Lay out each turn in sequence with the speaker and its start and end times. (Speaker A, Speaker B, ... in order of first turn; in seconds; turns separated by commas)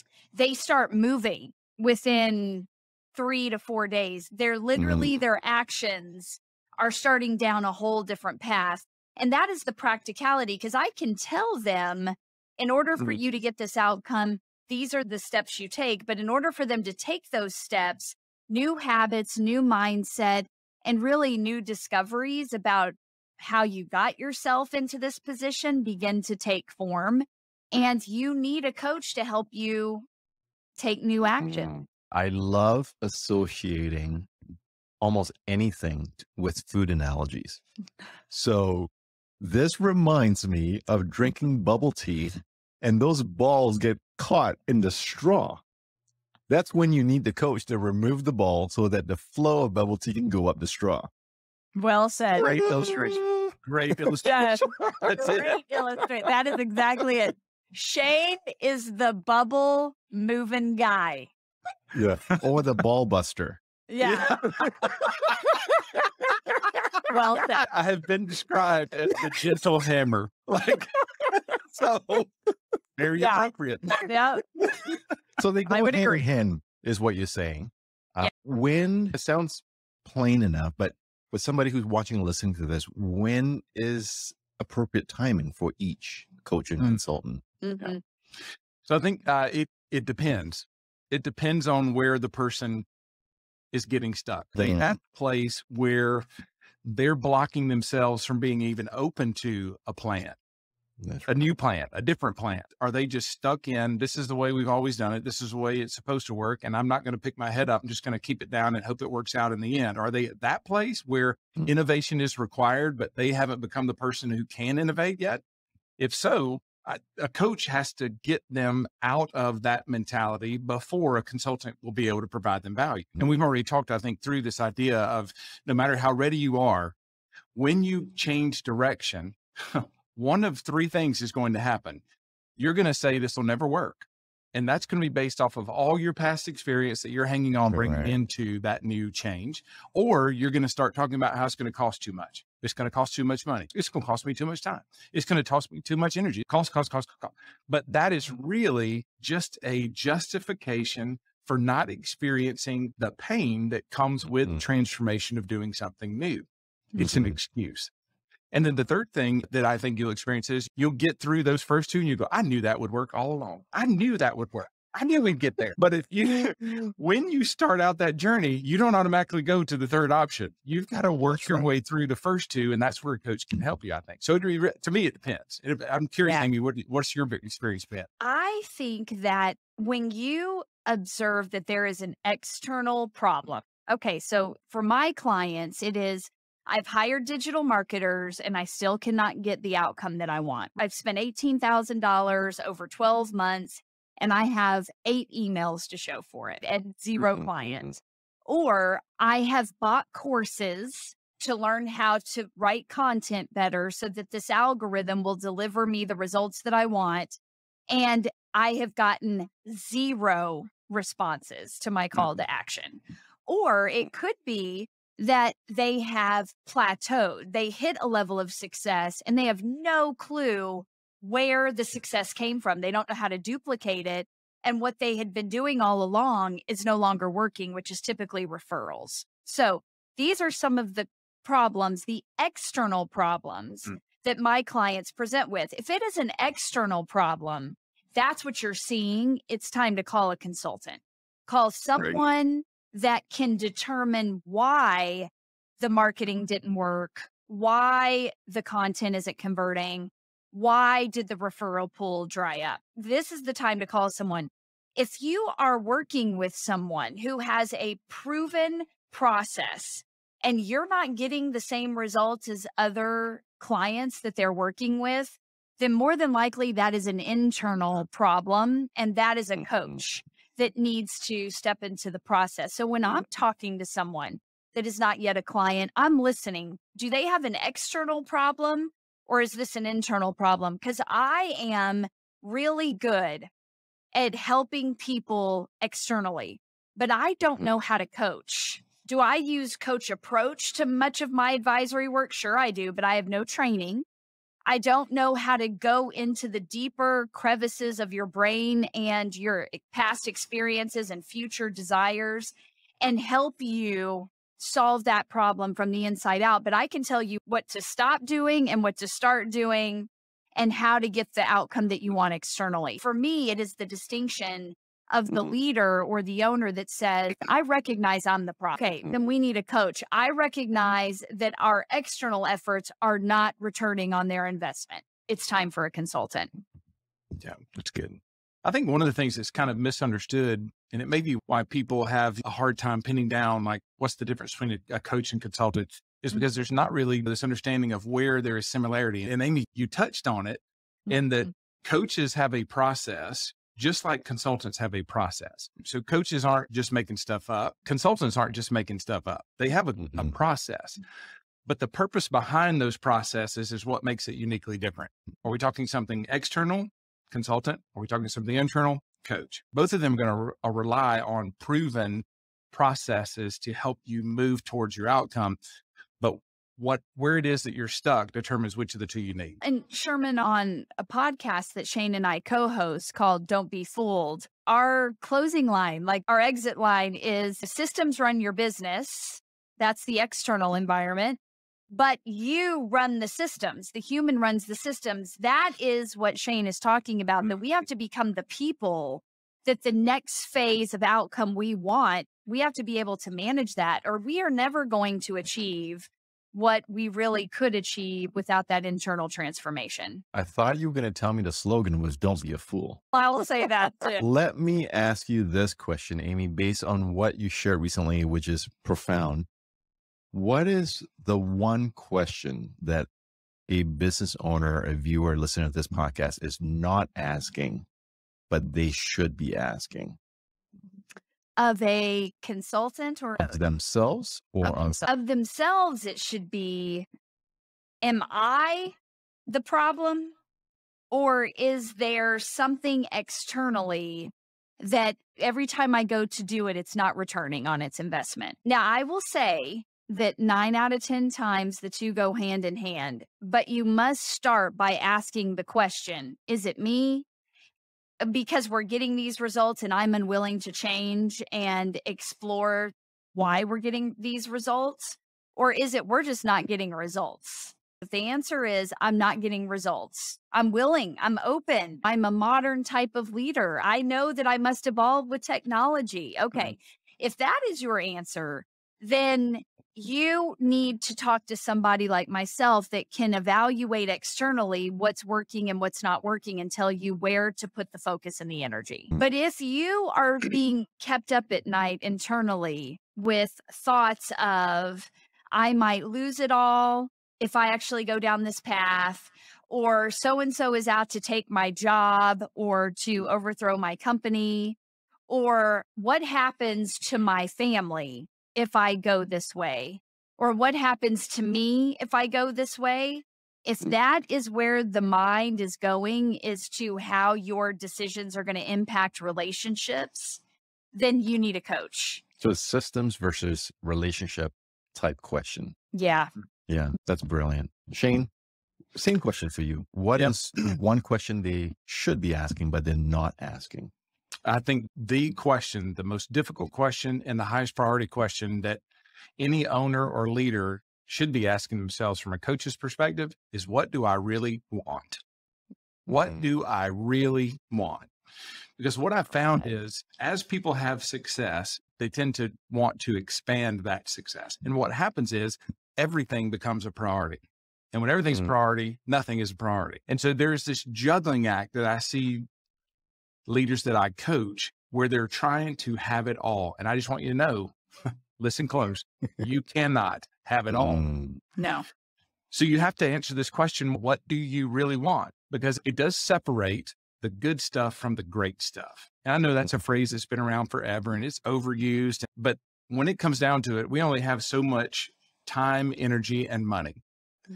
Speaker A: 0.3-30.1, Speaker B: 4.8-5.1, Speaker A: 30.8-31.7, Speaker B: 31.4-34.3, Speaker B: 35.0-37.6, Speaker B: 38.3-45.6, Speaker B: 46.5-51.1, Speaker A: 51.8-53.1, Speaker B: 52.4-53.5, Speaker C: 53.6-55.5, Speaker A: 54.2-61.3, Speaker B: 61.9-63.6, Speaker A: 63.9-64.4, Speaker C: 64.0-65.4, Speaker A: 67.1-67.6, Speaker C: 67.3-72.3, Speaker C: 73.0-74.0, Speaker A: 73.2-73.5, Speaker A: 74.0-74.4, Speaker B: 75.4-87.4, Speaker A: 75.7-76.2, Speaker A: 87.6-88.0, Speaker C: 88.8-92.8, Speaker C: 93.7-96.2, Speaker B: 94.5-94.9, Speaker C: 96.8-100.4, Speaker B: 101.0-101.4, Speaker C: 101.3-115.4, Speaker C: 116.0-127.0, Speaker C: 127.5-132.0, Speaker C: 132.6-157.9, Speaker B: 137.7-138.2, Speaker B: 157.0-157.4, Speaker C: 158.5-178.1, Speaker A: 178.2-197.9, Speaker B: 197.2-197.9, Speaker A: 198.5-207.3, Speaker A: 207.9-245.3, Speaker B: 242.0-242.2, Speaker A: 245.8-283.5, Speaker A: 284.1-294.0, Speaker A: 294.6-326.5, Speaker C: 327.4-351.0, Speaker C: 351.6-365.6, Speaker C: 366.2-369.6, Speaker A: 369.6-381.4, Speaker A: 381.9-400.2, Speaker B: 400.3-403.0, Speaker A: 403.1-404.2, Speaker B: 404.2-409.5, Speaker B: 410.3-413.1, Speaker B: 413.7-417.9, Speaker B: 418.5-420.2, Speaker A: 421.6-423.6, Speaker B: 423.4-425.1, Speaker A: 424.6-427.1, Speaker A: 428.0-428.9, Speaker A: 429.5-430.3, Speaker A: 431.1-447.2, Speaker A: 448.2-494.8, Speaker A: 495.3-510.4, Speaker A: 510.9-512.2, Speaker B: 512.4-515.7, Speaker A: 515.9-516.3, Speaker B: 516.7-518.3, Speaker B: 518.9-523.9, Speaker C: 520.1-520.5, Speaker C: 524.5-528.8, Speaker C: 529.4-535.2, Speaker C: 536.1-538.1, Speaker C: 538.8-552.5, Speaker C: 553.5-561.0, Speaker B: 560.7-561.4, Speaker A: 561.6-561.9, Speaker C: 562.5-577.0